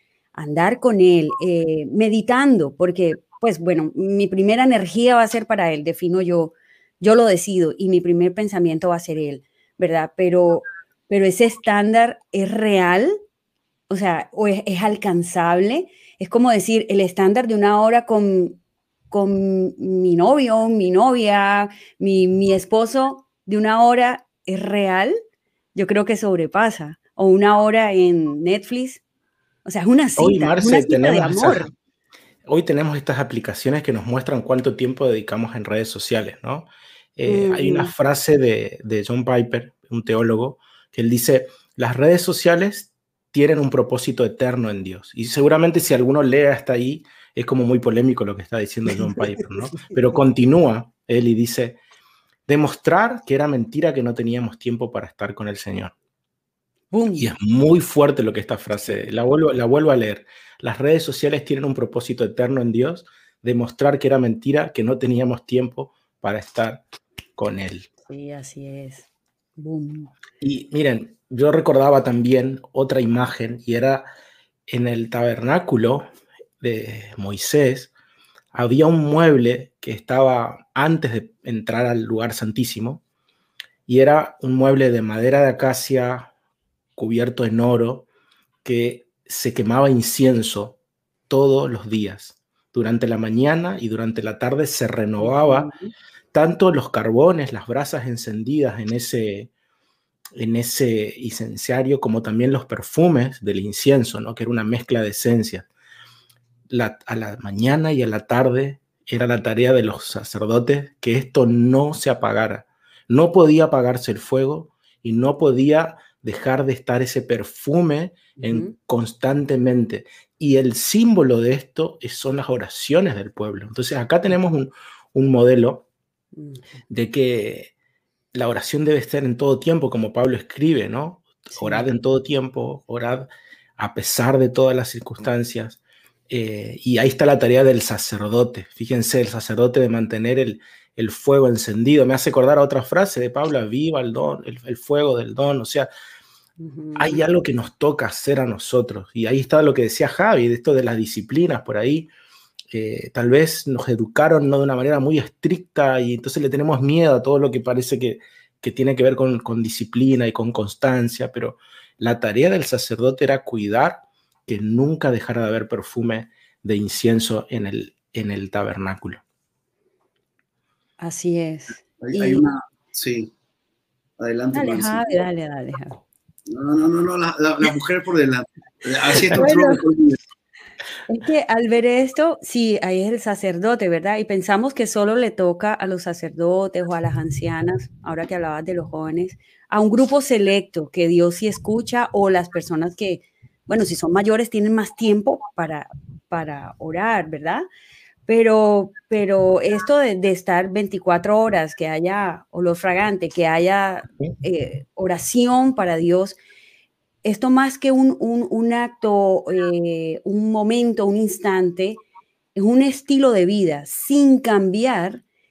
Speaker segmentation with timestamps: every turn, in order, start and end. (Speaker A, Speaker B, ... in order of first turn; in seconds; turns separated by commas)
Speaker A: 0.3-13.2, Speaker A: 13.9-18.6, Speaker A: 19.1-25.2, Speaker A: 25.8-29.0, Speaker A: 29.6-31.7, Speaker B: 30.2-31.7, Speaker B: 32.5-51.8, Speaker A: 37.3-37.9, Speaker B: 52.5-55.9, Speaker A: 56.9-57.3, Speaker B: 57.1-66.8, Speaker B: 67.4-67.9, Speaker A: 68.0-70.1, Speaker B: 70.4-74.1, Speaker B: 74.7-76.1, Speaker B: 76.6-77.9, Speaker B: 78.5-83.0, Speaker B: 83.9-86.3, Speaker B: 87.0-88.1, Speaker B: 88.6-90.8, Speaker B: 91.3-95.7, Speaker A: 95.2-95.9, Speaker B: 96.3-99.5, Speaker B: 100.4-105.7, Speaker B: 106.7-125.9, Speaker A: 118.4-118.8, Speaker A: 126.4-126.6, Speaker B: 126.9-127.7, Speaker B: 128.3-145.9, Speaker A: 131.5-131.9, Speaker A: 146.6-147.2, Speaker B: 147.0-152.1, Speaker B: 152.7-169.2, Speaker A: 171.0-172.5, Speaker C: 172.0-173.3, Speaker C: 174.2-175.2, Speaker A: 174.5-176.0, Speaker C: 176.5-180.2, Speaker A: 179.3-179.8, Speaker A: 181.1-197.7, Speaker A: 198.3-206.4, Speaker A: 207.2-212.0, Speaker A: 212.6-215.2